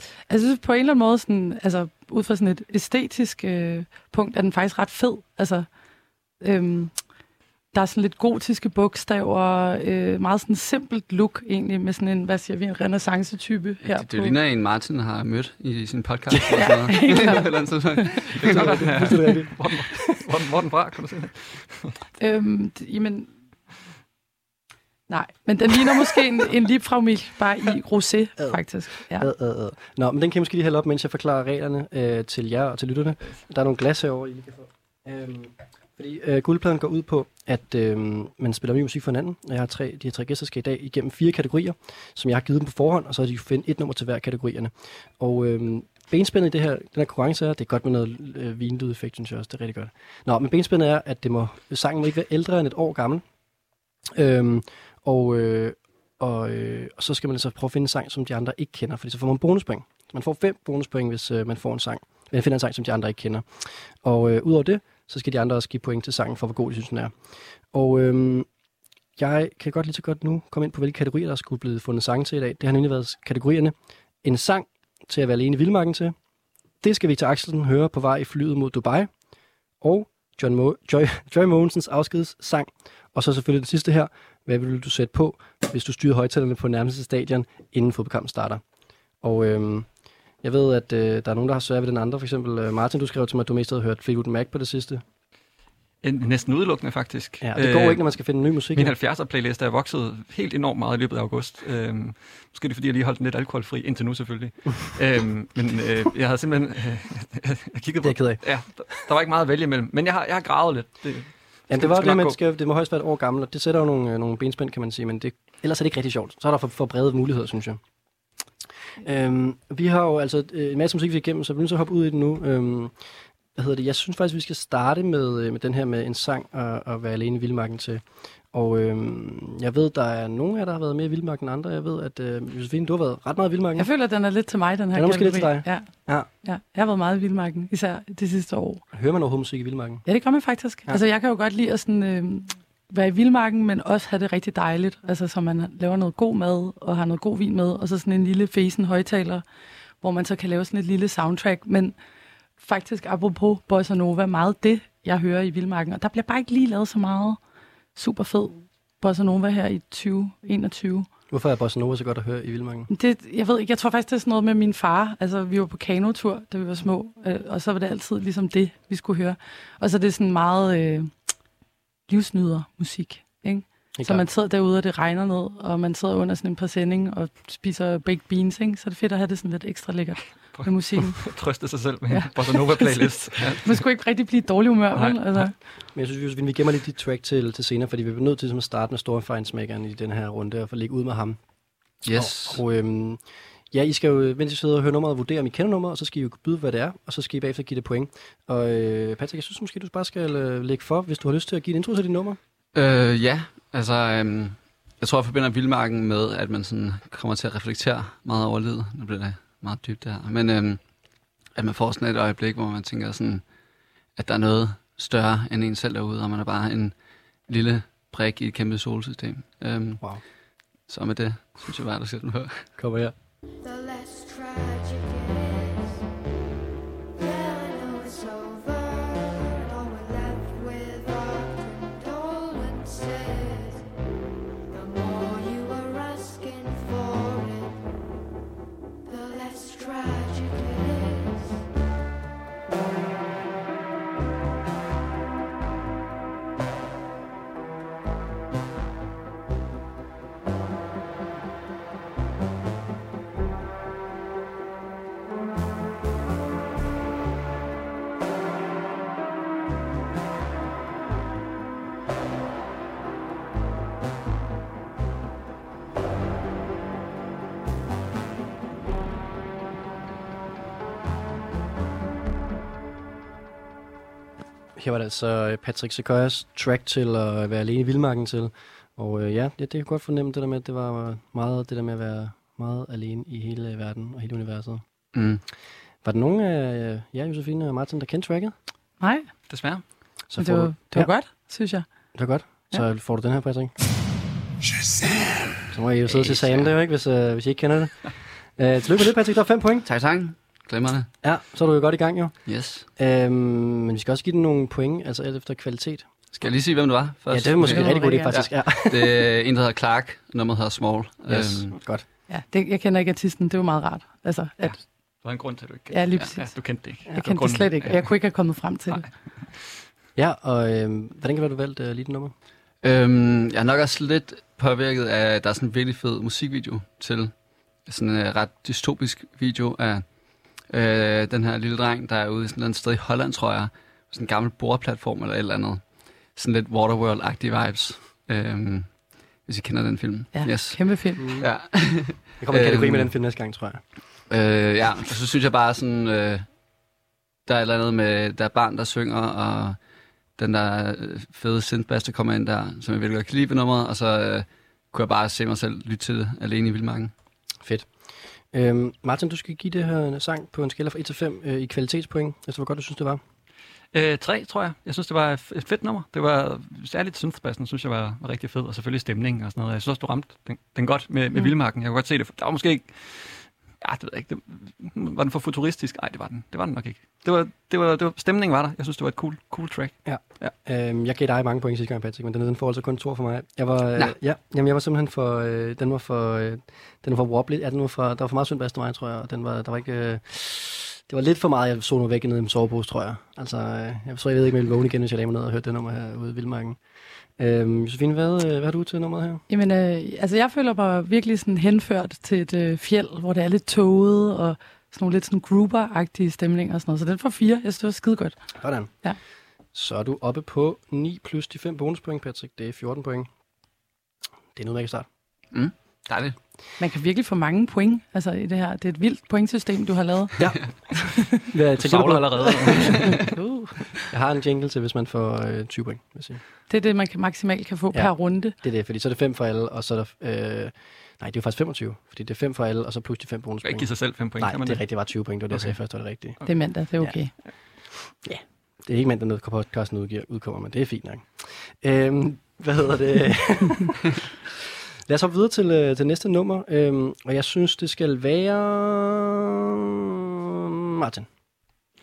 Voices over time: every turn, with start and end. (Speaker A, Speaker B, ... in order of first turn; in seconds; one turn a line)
Speaker A: 0.3-5.7
Speaker A: 6.4-6.9
Speaker A: 7.7-14.3
Speaker B: 13.8-18.8
Speaker A: 16.5-18.1
Speaker C: 18.4-21.9
Speaker D: 18.4-20.2
Speaker A: 22.2-23.3
Speaker A: 25.1-29.3
Speaker D: 29.1-53.2
Speaker D: 54.1-63.5
Speaker D: 64.0-67.1
Speaker D: 67.7-68.5
Speaker D: 69.2-76.2
Speaker D: 76.8-79.1
Speaker D: 79.8-88.6
Speaker D: 89.2-89.9
Speaker D: 90.4-95.0
Speaker C: 96.0-98.0
Speaker D: 97.4-99.0
Speaker C: 98.7-112.4
Speaker D: 108.0-108.4
Speaker D: 111.7-117.8
Speaker D: 119.0-122.9
Speaker D: 123.6-133.9
Speaker A: 133.8-135.9
Speaker D: 134.9-136.3
Speaker A: 136.4-138.8
Speaker D: 138.9-140.0
Speaker A: 140.1-149.4
Speaker A: 150.0-151.9
Speaker A: 152.6-157.4
Speaker A: 157.9-161.1
Speaker D: 161.3-162.9
Speaker A: 162.9-171.1
Speaker A: 172.1-181.3
Speaker D: 174.0-174.2
Speaker C: 180.6-183.8
Speaker A: 182.1-185.5
Speaker C: 184.9-185.4
Speaker D: 185.9-191.4
Speaker B: 192.0-192.6
Speaker D: 192.1-193.2
Speaker D: 193.7-202.4
Speaker B: 202.8-210.8
Speaker B: 211.6-213.4
Speaker B: 214.2-216.9
Speaker B: 217.5-220.0
Speaker B: 220.9-222.7
Speaker D: 222.8-223.2
Speaker E: 223.6-226.0
Speaker E: 227.2-233.9
Speaker E: 234.7-237.8
Speaker E: 239.1-241.6
Speaker D: 274.8-284.8
Speaker B: 285.1-285.4
Speaker D: 286.0-288.5
Speaker A: 289.0-289.3
Speaker C: 289.5-289.8
Speaker D: 290.3-291.1
Speaker A: 290.4-291.9
Speaker D: 292.1-293.7
Speaker D: 295.7-299.9
Speaker B: 296.1-296.7
Speaker B: 299.9-301.1
Speaker D: 301.2-302.4
Speaker B: 302.5-302.9
Speaker D: 303.0-306.1
Speaker B: 306.4-311.8
Speaker D: 307.3-309.3
Speaker A: 307.6-308.4
Speaker D: 311.3-312.1
Speaker A: 312.3-314.8
Speaker C: 315.2-318.0
Speaker A: 315.9-316.6
Speaker A: 317.1-319.1
Speaker D: 320.2-322.3
Speaker B: 322.8-327.3
Speaker B: 327.9-330.1
Speaker B: 330.7-335.8
Speaker B: 336.4-338.9
Speaker B: 339.4-343.1
Speaker A: 340.3-341.3
Speaker D: 341.2-341.5
Speaker D: 342.4-343.8
Speaker B: 344.3-346.5
Speaker B: 347.5-349.8
Speaker B: 350.4-357.1
Speaker D: 357.6-357.9
Speaker D: 358.5-363.2
Speaker C: 363.9-380.5
Speaker D: 380.1-396.8
Speaker D: 397.4-399.4
Speaker A: 399.5-408.4
Speaker D: 408.6-408.9
Speaker D: 409.7-413.3
Speaker D: 414.6-415.1
Speaker B: 415.5-416.4
Speaker A: 416.8-420.4
Speaker D: 420.4-423.2
Speaker C: 421.8-423.1
Speaker A: 423.1-424.0
Speaker D: 424.1-426.4
Speaker A: 426.7-428.6
Speaker D: 427.9-436.4
Speaker C: 433.6-434.8
Speaker A: 436.4-437.3
Speaker D: 438.2-444.2
Speaker D: 445.1-451.3